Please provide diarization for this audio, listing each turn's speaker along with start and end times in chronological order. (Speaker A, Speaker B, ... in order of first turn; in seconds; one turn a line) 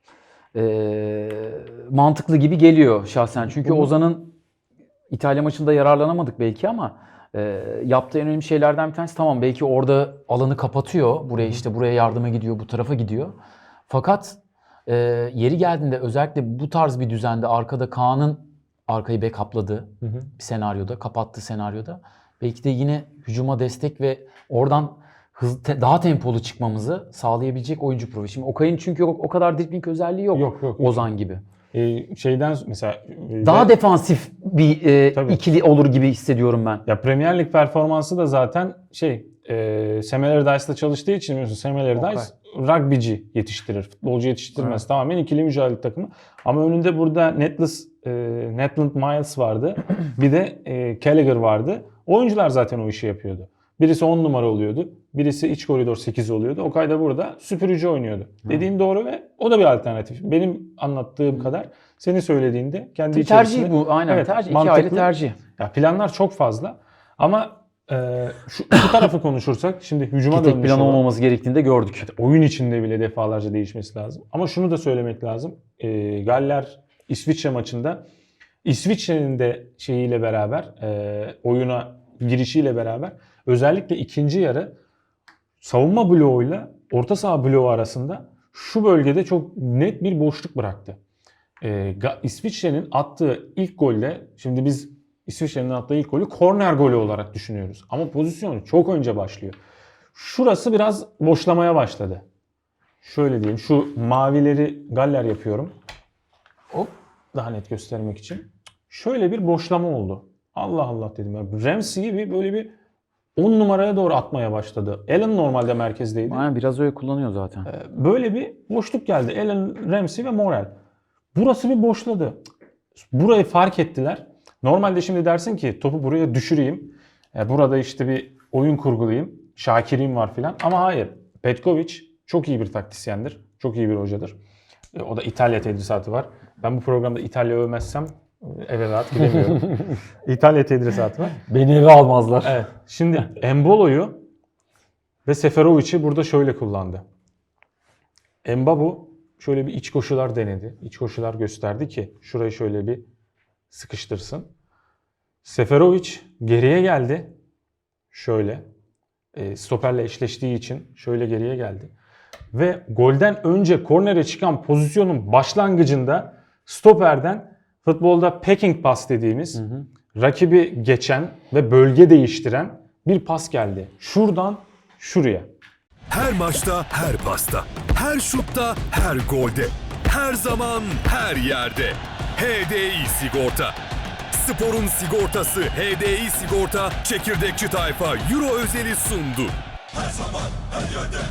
Speaker A: 0.5-4.3
Speaker B: 3.5-3.9
Speaker A: 5.1-13.3
Speaker A: 13.9-31.4
Speaker B: 20.0-20.3
Speaker B: 30.3-31.1
Speaker B: 31.7-33.7
Speaker A: 33.4-36.8
Speaker B: 35.1-35.4
Speaker B: 36.9-71.0
Speaker A: 42.0-42.3
Speaker A: 63.1-65.4
Speaker A: 70.3-72.1
Speaker B: 72.0-78.0
Speaker B: 78.6-84.7
Speaker B: 85.6-91.0
Speaker B: 91.6-99.6
Speaker B: 100.1-102.2
Speaker B: 103.0-105.7
Speaker B: 106.7-112.7
Speaker B: 113.3-116.5
Speaker A: 116.3-117.7
Speaker B: 117.7-120.7
Speaker B: 121.3-122.4
Speaker B: 123.0-134.3
Speaker B: 134.9-141.4
Speaker A: 141.5-142.6
Speaker B: 142.4-144.2
Speaker B: 145.2-147.0
Speaker B: 148.4-153.1
Speaker B: 153.7-154.5
Speaker B: 155.4-157.3
Speaker B: 158.1-158.7
Speaker B: 159.3-161.9
Speaker B: 162.5-169.6
Speaker A: 169.6-169.8
Speaker B: 170.1-175.5
Speaker C: 176.1-183.8
Speaker C: 184.3-189.5